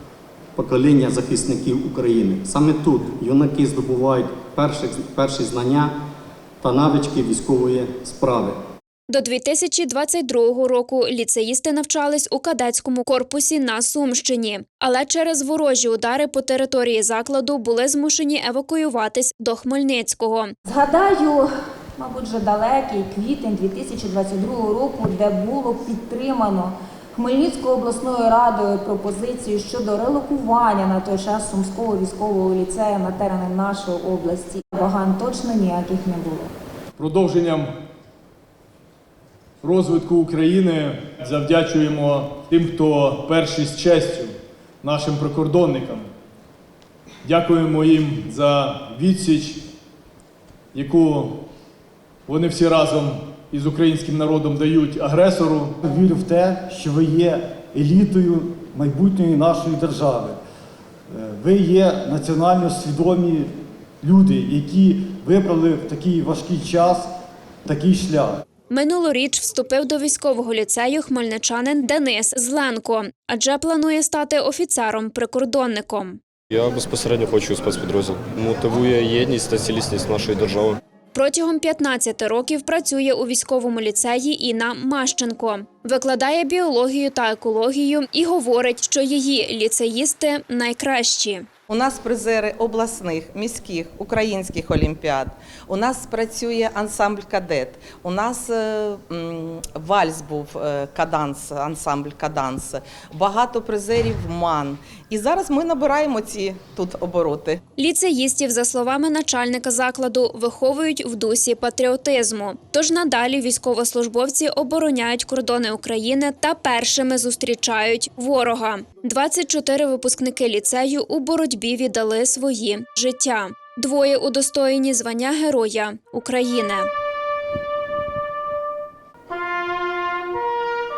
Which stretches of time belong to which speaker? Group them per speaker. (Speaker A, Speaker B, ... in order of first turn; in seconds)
Speaker A: 0.6-5.9, 6.6-8.6
Speaker B: 9.1-20.6, 68.7-76.2, 81.1-91.5, 107.8-126.9
Speaker C: 20.6-36.5
Speaker D: 37.0-37.7, 39.6-46.1, 47.2-49.6, 50.7-51.4, 52.3-55.8
Speaker E: 55.8-60.4, 61.1-63.5, 64.0-67.1, 67.7-68.4
Speaker F: 76.5-80.8
Speaker G: 91.7-107.6